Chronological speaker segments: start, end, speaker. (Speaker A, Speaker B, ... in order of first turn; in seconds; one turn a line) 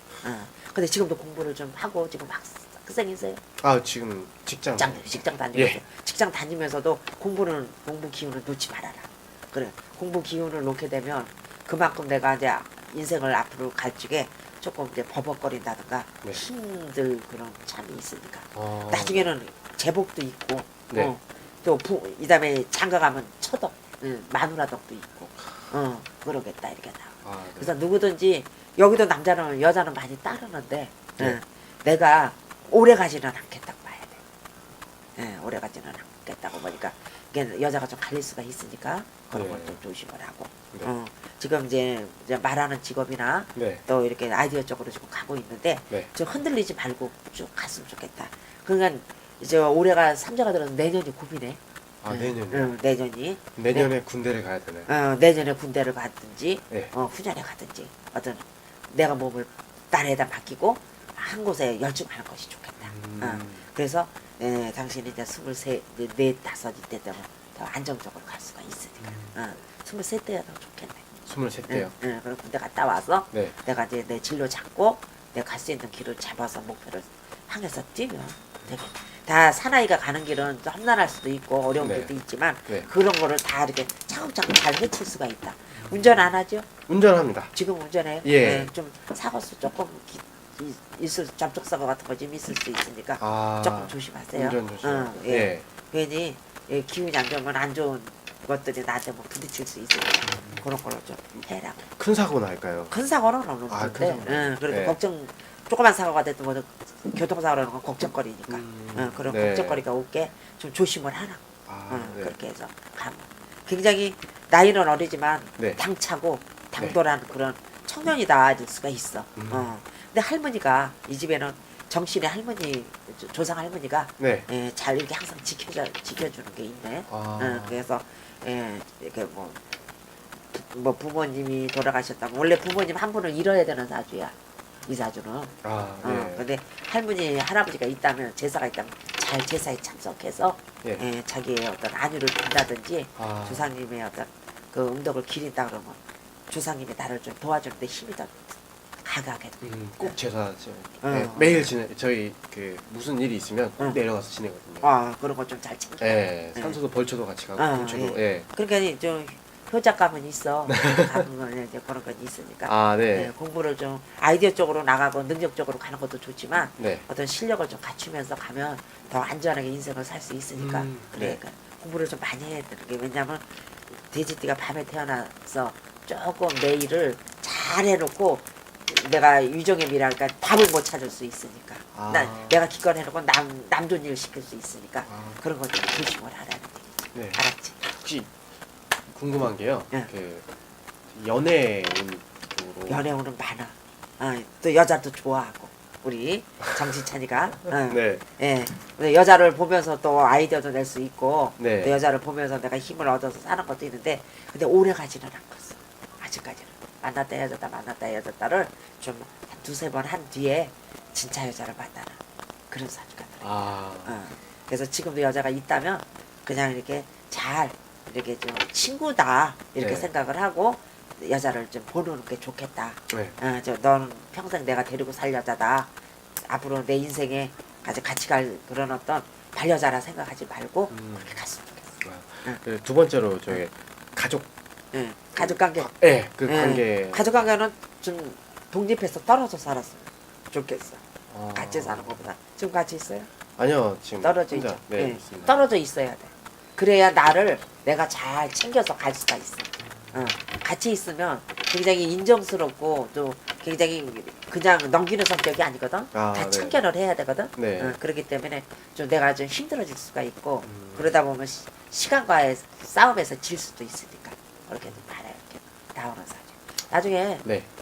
Speaker A: 0.2-3.4
Speaker B: 3.6-5.0
Speaker A: 4.8-34.2
Speaker B: 5.5-5.8
Speaker B: 18.5-19.3
Speaker B: 27.2-27.7
Speaker A: 35.2-53.9
Speaker B: 39.3-39.7
Speaker B: 43.5-43.8
Speaker B: 52.0-52.7
Speaker B: 53.5-54.9
Speaker A: 54.9-71.0
Speaker B: 62.8-63.6
Speaker B: 69.0-69.3
Speaker B: 71.2-71.9
Speaker A: 71.7-86.7
Speaker B: 81.8-82.1
Speaker B: 85.8-86.3
Speaker B: 86.9-87.5
Speaker A: 87.5-101.8
Speaker B: 88.2-88.7
Speaker B: 93.2-95.6
Speaker B: 100.2-100.7
Speaker B: 101.9-102.9
Speaker A: 102.9-129.6
Speaker B: 103.7-105.0
Speaker B: 108.5-109.8
Speaker B: 111.7-112.3
Speaker B: 119.3-119.7
Speaker B: 124.2-124.5
Speaker B: 127.1-127.8
Speaker A: 130.5-134.3
Speaker A: 134.8-150.2
Speaker B: 135.6-136.4
Speaker B: 143.2-143.7
Speaker B: 149.6-154.9
Speaker A: 151.0-151.7
Speaker A: 154.8-156.8
Speaker B: 156.0-158.5
Speaker A: 157.6-173.4
Speaker B: 160.7-161.2
Speaker B: 162.7-163.3
Speaker B: 166.8-167.0
Speaker B: 170.6-171.4
Speaker A: 174.0-187.8
Speaker B: 181.9-182.6
Speaker B: 185.1-185.4
Speaker B: 187.1-187.4
Speaker B: 188.0-188.3
Speaker B: 189.1-190.4
Speaker B: 191.1-193.1
Speaker A: 192.9-213.4
Speaker B: 197.8-198.2
Speaker B: 201.6-201.9
Speaker B: 213.4-214.1
Speaker A: 214.0-225.9
Speaker B: 219.8-220.1
Speaker B: 223.1-223.4
Speaker A: 226.4-232.6
Speaker B: 230.9-231.3
Speaker B: 232.0-234.5
Speaker A: 234.9-235.9
Speaker B: 235.4-237.3
Speaker A: 236.4-241.0
Speaker B: 241.3-242.2
Speaker A: 241.5-243.3
Speaker B: 243.6-245.5
Speaker A: 244.2-267.4
Speaker B: 256.1-256.8
Speaker B: 257.6-258.0
Speaker B: 260.6-261.1